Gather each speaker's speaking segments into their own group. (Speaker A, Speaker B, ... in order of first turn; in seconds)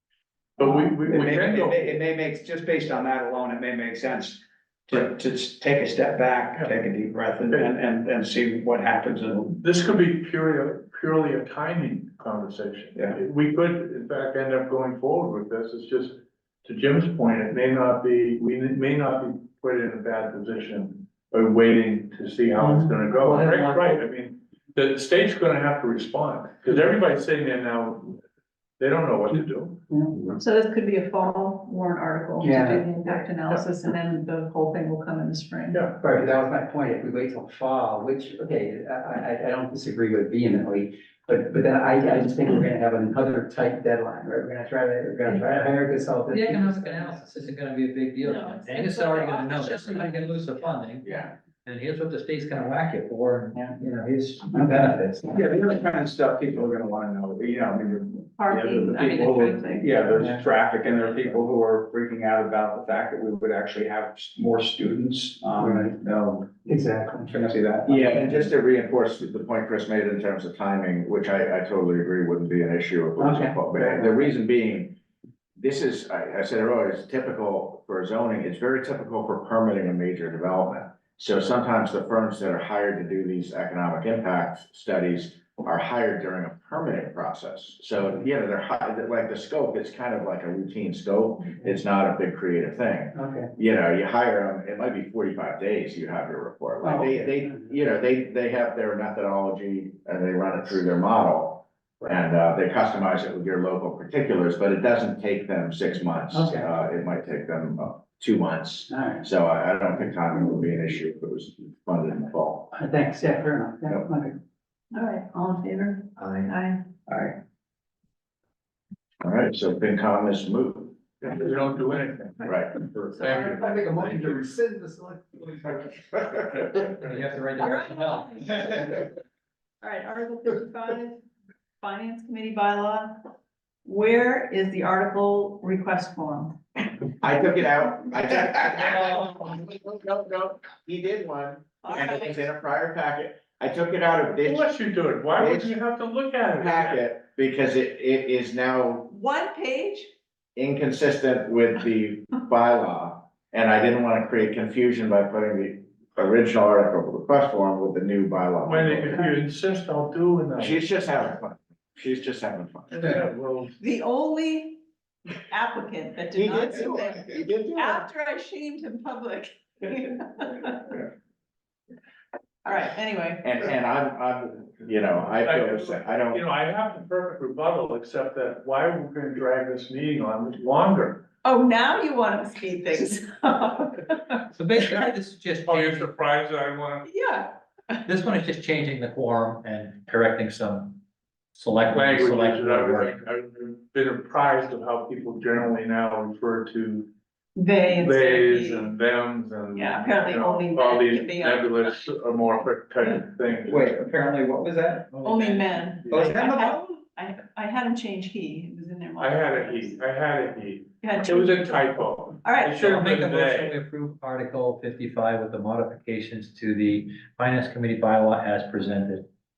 Speaker A: 0.6-2.0, 9.6-28.2, 28.8-29.8, 35.7-36.0, 121.2-124.2, 144.4-147.0, 158.6-160.9, 162.9-163.8, 175.4-181.2, 185.6-187.1, 191.9-197.1, 197.8-204.0, 206.0-206.3, 209.2-213.8
Speaker B: 0.6-9.6, 55.3-66.6, 67.3-68.2, 117.1-117.3, 205.5-206.9
Speaker C: 29.9-30.3, 32.4-32.9, 36.0-47.1, 54.5-55.2, 65.6-66.0, 66.6-68.5, 73.2-74.2, 93.1-93.5, 96.8-97.7, 106.3-106.7, 108.9-109.2, 112.7-114.4, 123.5-125.8, 203.8-205.0
Speaker D: 30.4-35.9, 48.2-50.6, 58.4-60.0, 114.9-116.8, 123.1-123.8, 127.6-128.7, 129.8-131.2, 131.8-133.2, 133.8-136.5, 141.8-142.4, 149.1-150.1, 163.8-164.8, 165.5-171.0, 172.6-173.7, 181.4-185.0, 187.1-188.0, 197.5-198.9, 199.7-201.9, 205.2-210.0, 211.0-211.8, 212.4-212.8
Speaker E: 45.4-55.2, 126.9-128.7, 184.5-186.1, 188.1-191.0, 191.5-193.2, 212.8-219.3
Speaker F: 51.0-51.3, 67.9-75.0, 75.6-112.7, 119.2-121.0, 122.4-122.8, 137.2-144.7, 145.4-145.8, 146.6-149.1, 150.6-159.2, 160.6-163.2, 166.3-168.1, 173.4-176.4